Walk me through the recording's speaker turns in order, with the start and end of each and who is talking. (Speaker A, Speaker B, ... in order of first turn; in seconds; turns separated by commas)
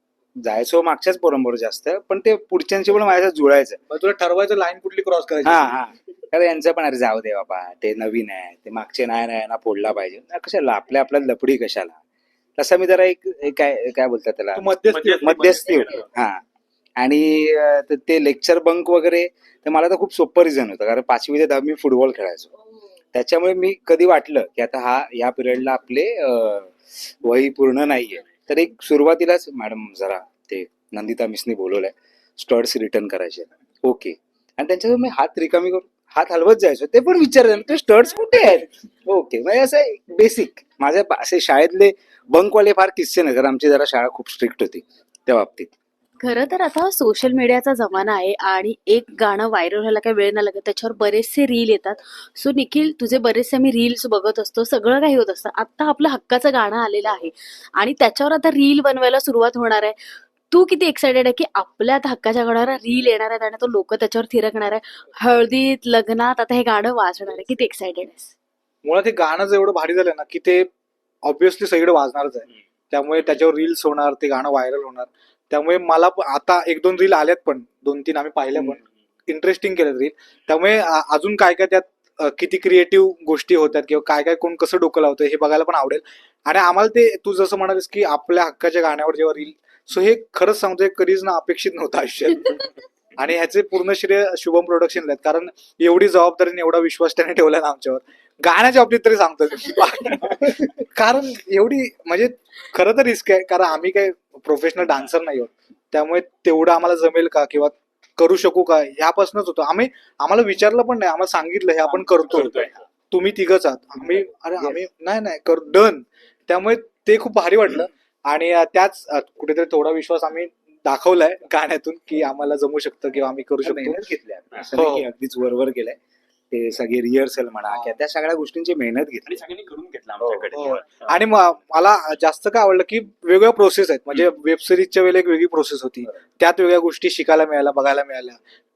Speaker A: 0.4-3.8, Speaker B: 3.9-5.8, Speaker A: 5.4-12.0, Speaker A: 12.6-16.4, Speaker B: 14.5-15.5, Speaker C: 14.9-16.1, Speaker A: 17.0-22.5, Speaker A: 23.1-45.7, Speaker D: 46.2-59.9, Speaker D: 60.5-68.3, Speaker B: 68.8-70.7, Speaker B: 71.2-92.6, Speaker B: 93.2-112.6, Speaker C: 112.3-112.8, Speaker B: 113.1-124.0, Speaker A: 123.6-126.0, Speaker B: 124.7-125.0, Speaker A: 126.5-129.4, Speaker B: 127.7-128.0, Speaker C: 129.2-131.1, Speaker A: 130.2-130.5, Speaker B: 130.5-138.4